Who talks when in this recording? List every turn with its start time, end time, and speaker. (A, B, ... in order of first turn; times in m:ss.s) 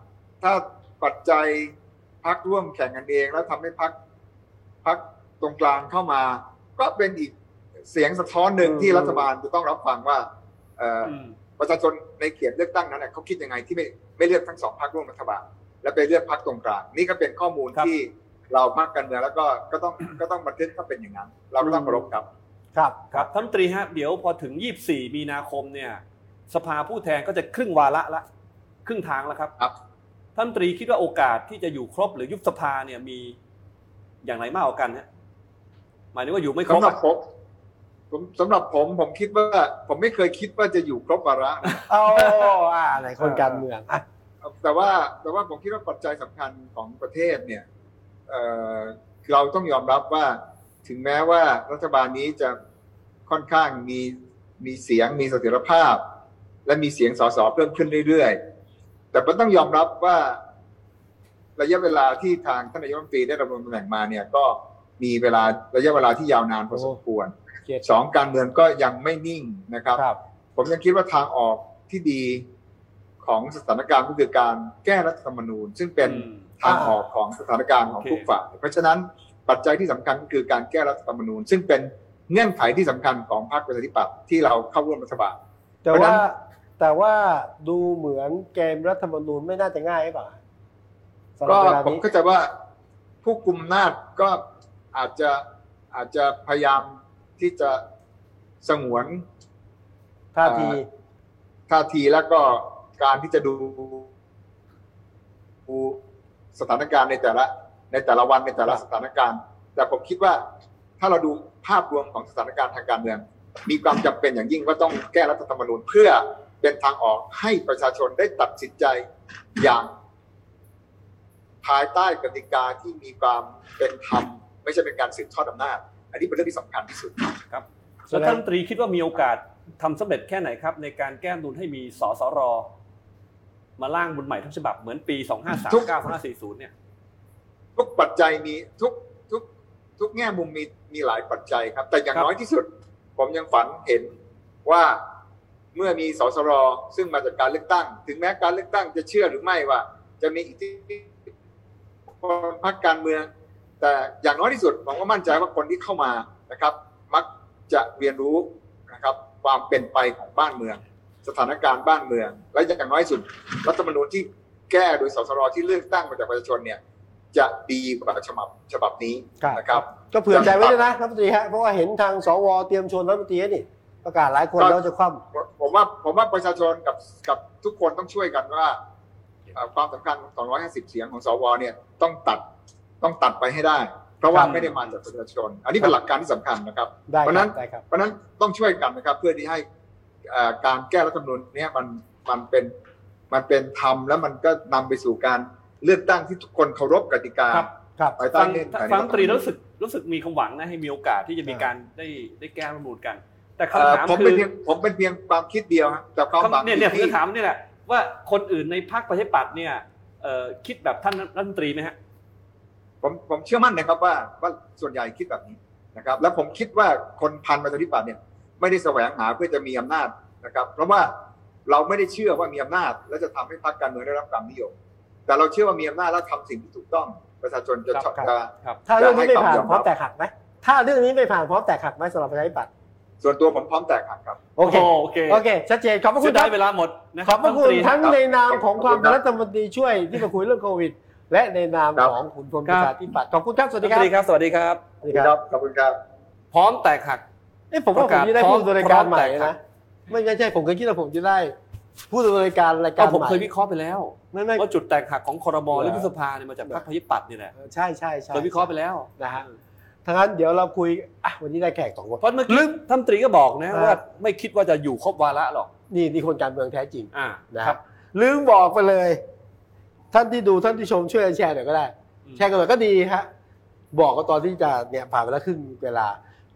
0:00.4-0:04.0 A
0:04.8-0:07.3 A
0:07.9-0:10.3 A
0:08.6-0:09.2 B
0:10.8-0:22.3 A
0:11.0-0:11.4 C
0:21.6-0:22.1 B
0:22.8-0:23.3 B
0:23.1-0:28.3 C
0:28.8-0:29.5 C
0:30.4-0:33.4 C
0:34.2-0:35.1 C
0:36.1-0:37.0 C
0:36.7-0:37.2 A
0:38.1-0:41.8 A
0:41.9-0:44.0 B
0:43.2-0:43.6 C
0:44.4-0:47.6 A
0:48.3-0:52.6 A
0:53.3-0:56.0 A
0:56.7-0:58.4 A
0:59.1-1:00.4 A
1:01.6-1:10.0 A
1:10.6-1:12.5 A
1:13.2-1:25.4 A
1:16.0-1:16.5 C
1:16.6-1:17.0 B
1:18.0-1:18.3 C
1:25.8-1:30.4 B
1:25.9-1:26.2 A
1:31.4-1:32.0 B
1:31.5-1:32.5 A
1:33.2-1:34.4 A
1:34.9-1:37.8 A
1:38.6-1:39.2 A
1:40.4-1:40.8 B
1:40.4-1:40.8 A
1:41.7-1:44.1 A
1:45.7-1:46.0 A
1:46.6-1:50.4 A
1:51.0-1:59.0 A
1:59.6-1:59.9 A
2:01.6-2:07.4 A
2:07.5-2:12.7 C
2:08.1-2:08.4 B
2:13.8-2:16.7 C
2:15.7-2:16.0 A
2:17.8-2:19.4 A
2:20.0-2:22.7 A
2:23.2-2:24.1 A
2:24.6-2:25.0 A
2:25.8-2:31.1 A
2:32.2-2:33.3 A
2:33.8-2:46.8 A
2:47.3-2:50.8 A
2:49.4-2:55.2 B
2:55.3-2:58.8 A
2:59.5-3:02.4 A
3:03.0-3:09.6 A
3:04.3-3:04.8 C
3:07.1-3:07.8 B
3:10.3-3:12.7 A
3:13.3-3:19.5 A
3:18.3-3:24.5 C
3:23.7-3:27.2 A
3:26.4-3:32.0 C
3:33.0-3:41.1 A
3:41.7-3:44.8 A
3:45.3-3:49.9 A
3:48.0-3:48.3 B
3:48.9-3:52.7 B
3:53.2-3:54.4 A
3:54.6-3:56.6 B
3:54.6-3:55.4 C
3:56.2-3:58.2 C
3:57.2-4:04.1 B
3:58.5-3:59.2 A
4:02.7-4:02.9 C
4:03.8-4:04.9 C
4:05.0-4:05.3 B
4:05.1-4:06.0 A
4:06.5-4:07.3 C
4:07.7-4:09.6 B
4:07.9-4:09.5 C
4:10.1-4:11.6 B
4:12.1-4:13.5 B
4:13.0-4:17.5 C
4:14.3-4:14.6 B
4:15.7-4:16.1 B
4:17.6-4:19.4 B
4:18.3-4:19.6 C
4:20.0-4:22.8 B
4:22.2-4:25.7 C
4:23.7-4:24.0 B
4:25.9-4:29.2 B
4:27.1-4:27.8 C
4:30.1-4:33.3 B
4:33.9-4:36.2 B